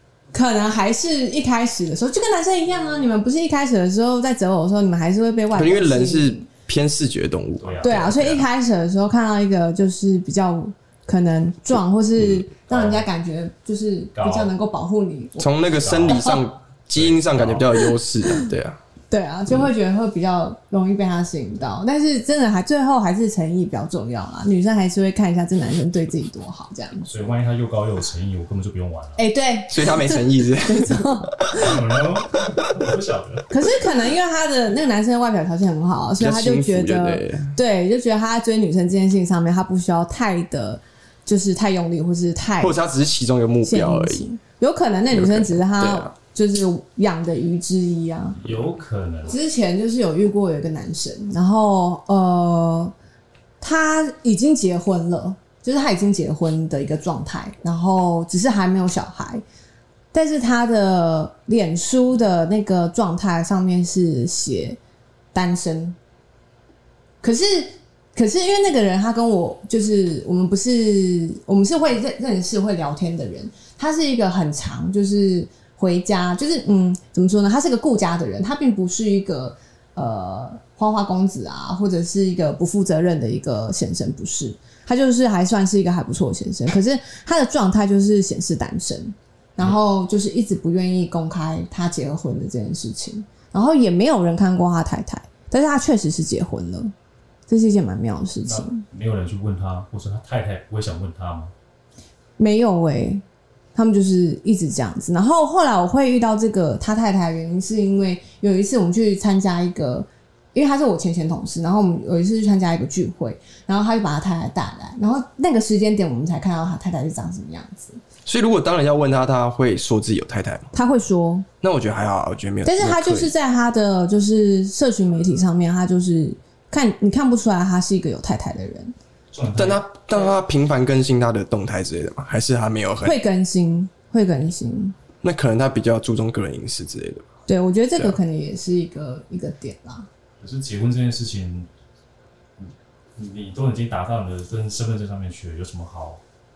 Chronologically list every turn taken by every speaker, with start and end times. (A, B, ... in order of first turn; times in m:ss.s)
0:00.3-0:06.4 A
0:05.5-0:08.4 B
0:07.6-0:08.3 C
0:07.8-0:15.5 A
0:12.7-0:13.1 C
0:14.2-0:14.5 C
0:15.4-0:18.8 B
0:15.8-0:16.3 C
0:16.1-0:16.4 A
0:16.9-0:17.7 C
0:19.1-0:27.1 A
0:27.0-0:29.2 C
0:29.2-0:31.8 A
0:29.7-0:31.7 B
0:31.5-0:33.5 C
0:33.5-0:42.8 A
0:36.2-0:37.5 B
0:42.6-0:44.2 B
0:43.6-0:48.4 A
0:45.1-0:46.1 B
0:48.4-0:49.4 C
0:49.3-0:52.9 A
0:53.6-0:59.4 A
1:00.1-1:04.8 A
1:05.3-1:06.0 A
1:07.2-1:36.9 A
1:37.5-1:38.8 A
1:38.5-1:41.5 C
1:42.4-1:43.2 A
1:43.7-1:58.0 A
1:58.2-2:00.7 B
2:00.7-2:01.5 A
2:01.6-2:03.3 B
2:02.6-2:08.9 A
2:09.3-2:10.3 C
2:09.6-2:13.2 B
2:13.0-2:15.0 A
2:15.2-2:17.2 B
2:17.5-2:20.1 A
2:20.4-2:21.7 C
2:22.6-2:26.2 C